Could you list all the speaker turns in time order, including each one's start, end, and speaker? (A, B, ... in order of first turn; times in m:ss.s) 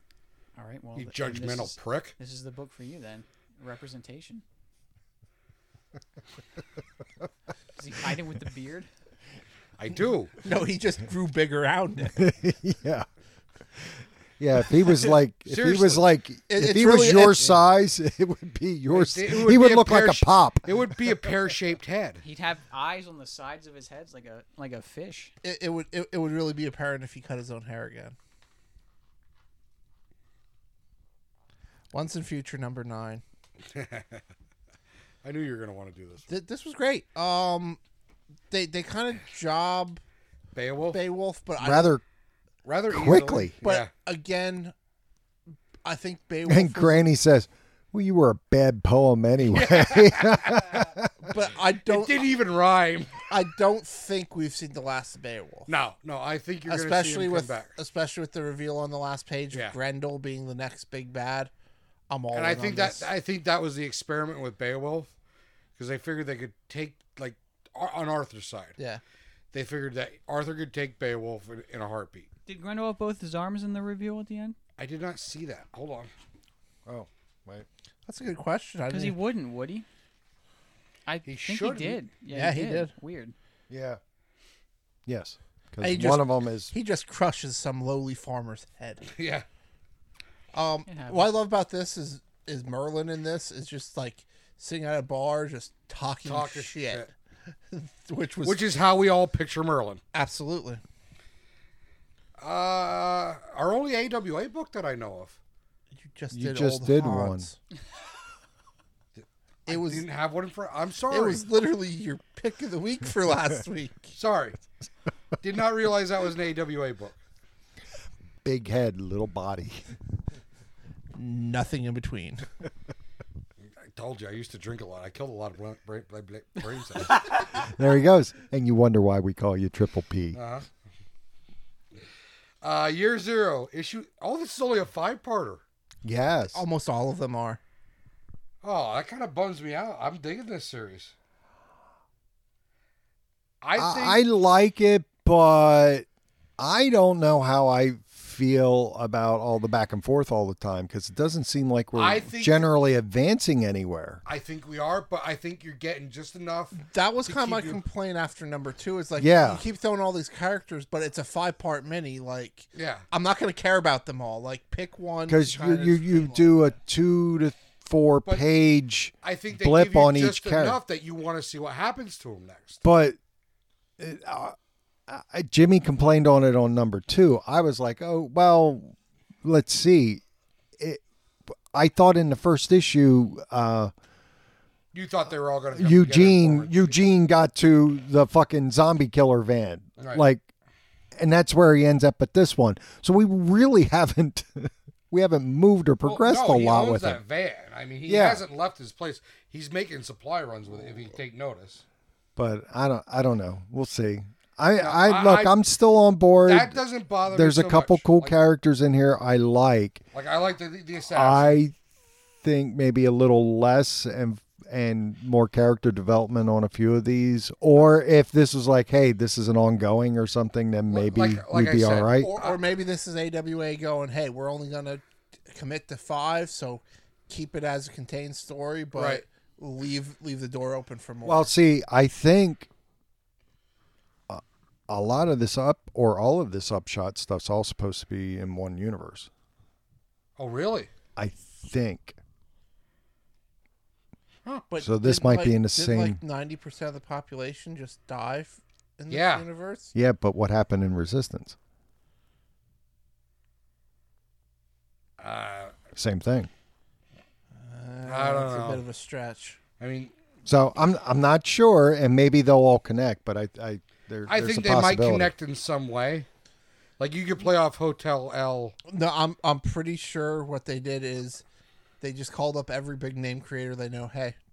0:00.6-0:04.4 A
0:01.0-0:02.1 B
0:07.8-0:08.9 A
0:09.8-0:10.4 B
0:10.4-0:12.2 C
0:12.2-0:13.0 D
0:13.8-0:21.1 D
0:15.4-0:16.0 B
0:16.5-0:17.6 C
0:18.9-0:22.2 B
0:22.2-0:25.3 A
0:25.4-0:28.2 C
0:31.9-0:33.2 C
0:33.7-0:34.2 B
0:35.2-0:36.2 B
0:36.3-0:37.8 C
0:38.5-0:40.0 C
0:40.5-0:41.0 B
0:40.9-0:41.9 C
0:41.6-0:42.0 D
0:42.6-0:43.9 B
0:42.9-0:43.6 D
0:43.6-0:44.7 C
0:45.8-0:47.0 C
0:46.4-0:51.3 D
0:49.5-0:50.9 B
0:51.2-0:52.3 C
0:51.8-0:53.3 B
0:53.3-0:55.7 C
0:55.7-0:57.7 B
0:56.7-1:01.5 C
1:02.1-1:03.1 C
1:02.3-1:05.1 B
1:05.8-1:08.8 B
1:09.5-1:12.3 B
1:12.4-1:14.6 A
1:14.8-1:16.1 B
1:16.8-1:17.6 D
1:18.0-1:19.2 C
1:18.9-1:19.8 A
1:21.0-1:23.3 A
1:21.2-1:22.0 B
1:22.3-1:22.9 C
1:23.7-1:24.0 D
1:25.1-1:26.7 D
1:25.8-1:29.0 C
1:29.1-1:29.4 B
1:30.5-1:37.1 C
1:30.9-1:31.3 A
1:36.2-1:37.1 B
1:37.7-1:38.6 C
1:38.4-1:40.0 B
1:40.1-1:40.8 C
1:42.4-1:45.4 B
1:46.0-1:47.5 C
1:46.3-1:47.5 D
1:49.2-1:51.4 B
1:49.7-1:50.0 C
1:51.1-1:54.1 C
1:54.1-1:54.6 B
1:55.4-1:57.2 B
1:58.4-1:59.9 D
2:01.1-2:02.4 C
2:03.8-2:07.2 B
2:07.4-2:10.4 D
2:10.3-2:10.7 B
2:12.6-2:15.6 B
2:16.0-2:16.6 D
2:16.5-2:17.6 C
2:18.6-2:21.1 B
2:23.6-2:24.2 B
2:23.8-2:26.0 D
2:26.6-2:34.2 D
2:31.9-2:32.7 B
2:34.2-2:37.8 B
2:36.8-2:46.6 C
2:39.2-2:39.6 D
2:42.7-2:43.0 B
2:45.3-2:50.8 D
2:49.2-2:52.8 B
2:52.8-2:53.2 D
2:54.0-2:54.6 D
2:55.1-3:00.2 D
3:01.7-3:03.9 D
3:04.9-3:07.0 B
3:05.7-3:10.5 D
3:11.2-3:17.2 D
3:16.0-3:21.8 B
3:18.0-3:18.4 D
3:22.4-3:30.0 D
3:24.8-3:25.5 B
3:26.4-3:28.3 B
3:30.1-3:31.6 B
3:31.1-3:31.8 D
3:32.4-3:42.3 D
3:40.9-3:42.6 B
3:42.2-3:51.5 C
3:48.9-3:49.2 B
3:51.2-3:52.7 D
3:54.3-3:59.3 D
4:00.4-4:00.9 B
4:01.2-4:02.2 D
4:04.7-4:09.9 C
4:04.8-4:06.2 D
4:09.1-4:09.5 B
4:09.9-4:11.6 D
4:15.2-4:15.8 B
4:16.0-4:16.5 D
4:17.5-4:19.6 C
4:18.0-4:18.8 B
4:19.8-4:20.1 B
4:20.4-4:25.3 D
4:24.3-4:26.3 B
4:27.0-4:28.8 B
4:28.9-4:31.4 C
4:32.0-4:34.4 C